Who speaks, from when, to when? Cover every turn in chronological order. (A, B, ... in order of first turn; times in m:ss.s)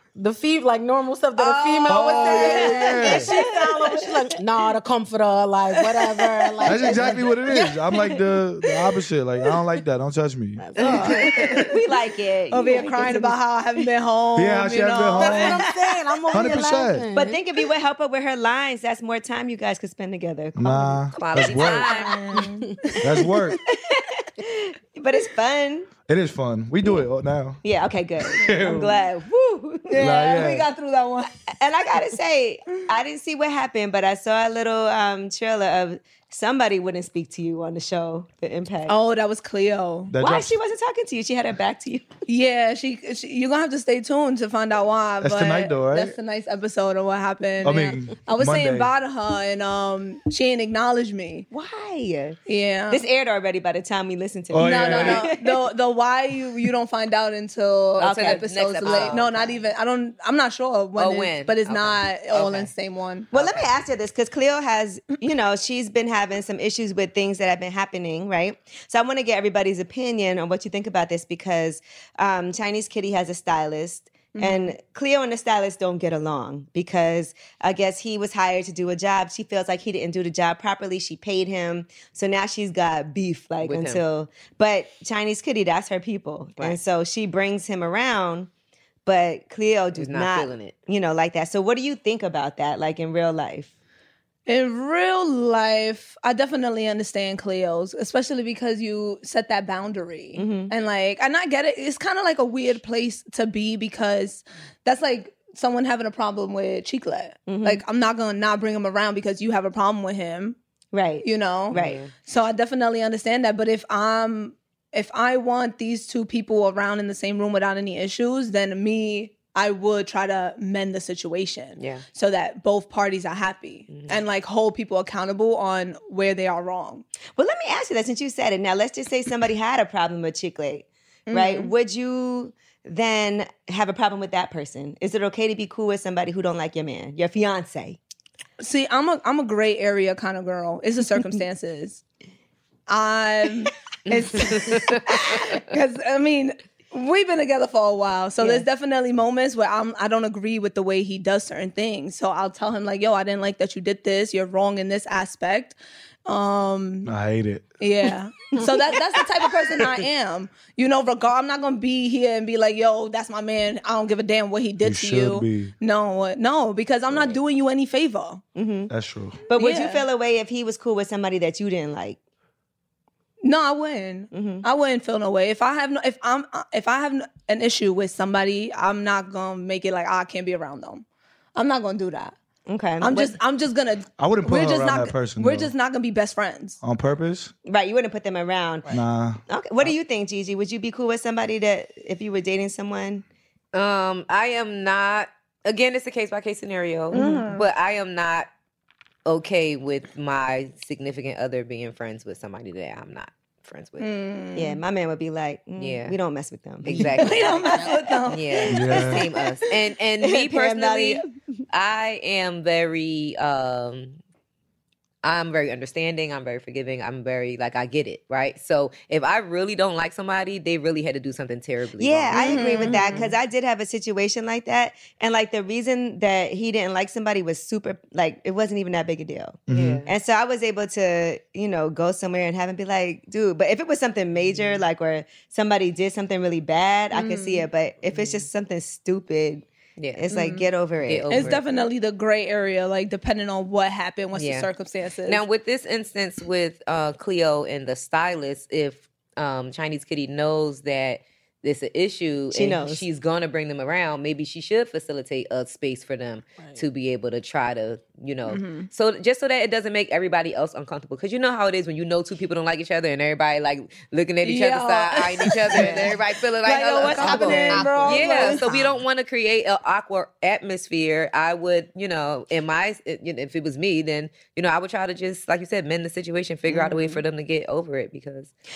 0:00.2-0:08.2 A
0:01.4-0:03.4 B
0:01.9-0:03.3 C
0:03.1-0:04.1 D
0:05.7-0:06.9 D
0:06.6-0:11.7 C
0:10.6-0:11.2 A
0:10.8-0:13.8 B
0:12.5-0:15.7 D
0:14.4-0:15.6 C
0:15.2-0:17.4 A
0:16.3-0:17.1 C
0:17.1-0:21.7 B
0:20.5-0:21.9 C
0:21.1-0:22.1 E
0:21.9-0:22.6 D
0:23.0-0:23.6 C
0:23.5-0:25.9 B
0:26.1-0:27.6 C
0:27.6-0:30.4 B
0:28.3-0:29.0 C
0:29.9-0:31.3 D
0:30.0-0:30.7 C
0:31.6-0:39.0 B
0:38.9-0:40.2 D
0:40.1-0:40.6 C
0:40.1-0:42.1 B
0:42.3-0:51.5 D
0:45.2-0:46.1 C
0:47.6-0:48.9 C
0:51.5-0:52.4 B
0:52.5-0:53.0 D
0:52.9-0:55.6 B
0:54.5-0:55.2 C
0:54.6-1:03.3 D
0:58.0-0:59.3 E
0:58.0-0:59.6 B
1:01.0-1:02.7 E
1:03.3-1:28.5 B
1:03.3-1:03.6 E
1:14.3-1:14.7 D
1:23.6-1:24.0 E
1:29.0-1:33.7 B
1:30.0-1:30.7 E
1:34.5-1:50.6 D
1:40.4-1:40.7 B
1:47.5-1:47.8 B
1:50.9-1:52.0 B
1:51.2-2:07.0 D
1:51.7-1:52.1 E
2:01.8-2:02.0 E
2:03.9-2:04.2 E
2:07.4-2:18.0 B
2:11.3-2:11.7 D
2:18.6-2:22.0 D
2:22.9-2:37.1 D
2:24.1-2:25.0 E
2:37.0-2:37.7 C
2:37.8-2:48.4 D
2:44.8-2:45.7 C
2:48.5-2:48.9 B
2:48.9-2:49.4 C
2:49.5-2:52.2 B
2:49.5-2:50.0 D
2:53.4-3:01.0 D
2:54.3-2:54.6 B
3:01.5-3:02.3 D
3:02.6-3:03.4 B
3:03.0-3:06.8 D
3:04.2-3:05.7 C
3:06.8-3:07.5 C
3:07.6-3:08.9 B
3:08.9-3:09.9 C
3:09.5-3:13.2 B
3:13.7-3:18.5 E
3:17.1-3:17.6 D
3:17.1-3:17.4 B
3:19.2-3:24.1 E
3:24.0-3:24.8 D
3:24.5-3:27.6 B
3:25.8-3:26.1 E
3:26.8-3:34.2 E
3:27.2-3:29.1 D
3:27.7-3:27.9 A
3:28.7-3:29.2 C
3:30.2-3:31.2 B
3:35.2-3:43.3 E
3:42.0-4:01.4 B
3:42.3-3:43.3 D
3:49.7-3:50.0 C
3:49.7-3:50.1 E
3:54.4-3:54.8 E
3:57.1-3:57.6 D
3:58.1-3:58.4 E
4:00.0-4:01.6 E
4:00.3-4:00.6 D
4:01.3-4:05.4 D
4:04.3-4:04.7 E
4:05.2-4:38.5 E
4:12.5-4:13.0 B
4:18.5-4:18.9 D
4:24.4-4:28.7 D
4:25.8-4:26.0 A
4:26.6-4:28.8 B
4:27.2-4:28.6 A
4:36.7-4:37.2 B